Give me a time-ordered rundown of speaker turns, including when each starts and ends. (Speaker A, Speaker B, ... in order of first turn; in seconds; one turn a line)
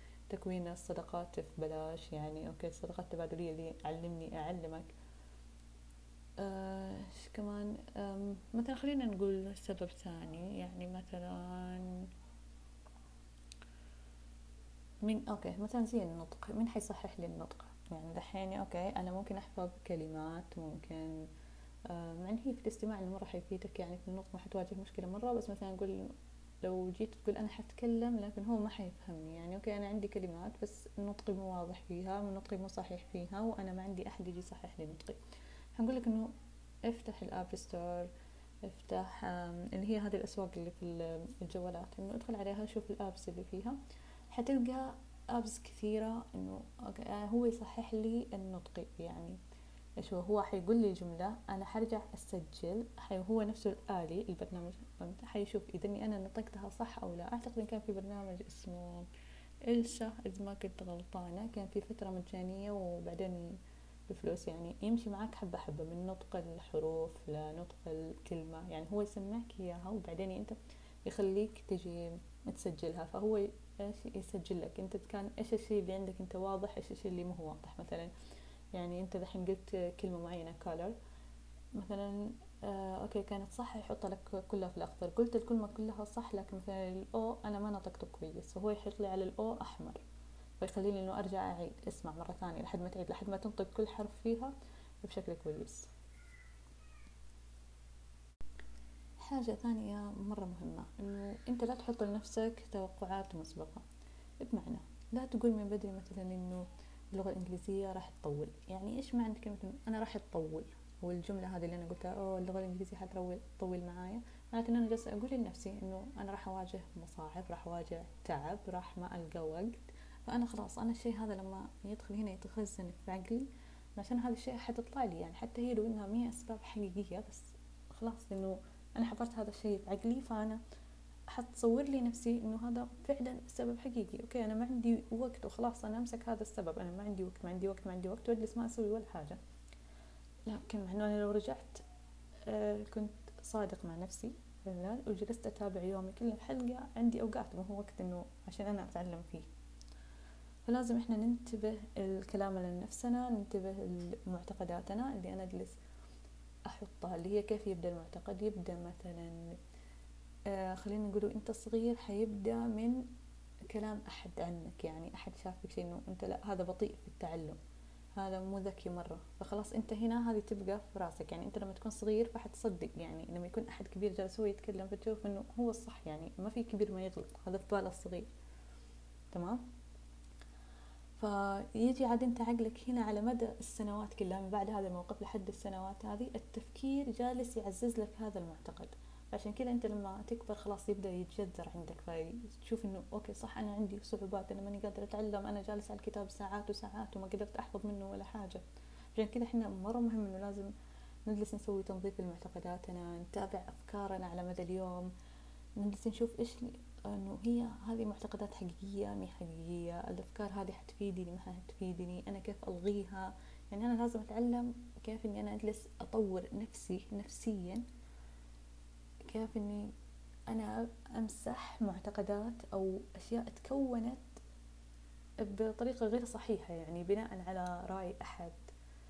Speaker A: 0.3-4.9
Speaker A: 6.4-11.9
Speaker A: 15.0-21.3
Speaker A: 21.9-35.2
Speaker A: 35.8-36.3
Speaker A: 36.9-38.1
Speaker A: 38.7-43.8
Speaker A: 44.3-49.4
Speaker A: 50.0-59.1
Speaker A: 59.7-63.6
Speaker A: 64.1-78.1
Speaker A: 78.7-81.0
Speaker A: 81.8-90.0
Speaker A: 90.6-95.9
Speaker A: 99.2-103.8
Speaker A: 104.4-130.6
Speaker A: 131.3-139.4
Speaker A: 140.5-141.8
Speaker A: 142.5-149.5
Speaker A: 150.7-155.8
Speaker A: 156.7-159.5
Speaker A: 160.5-163.0
Speaker A: 163.7-167.6
Speaker A: 168.2-178.3
Speaker A: 179.3-179.6
Speaker A: 181.2-198.6
Speaker A: 199.2-200.7
Speaker A: 201.3-205.1
Speaker A: 205.8-217.8
Speaker A: 219.3-219.9
Speaker A: 220.5-224.3
Speaker A: 225.4-228.6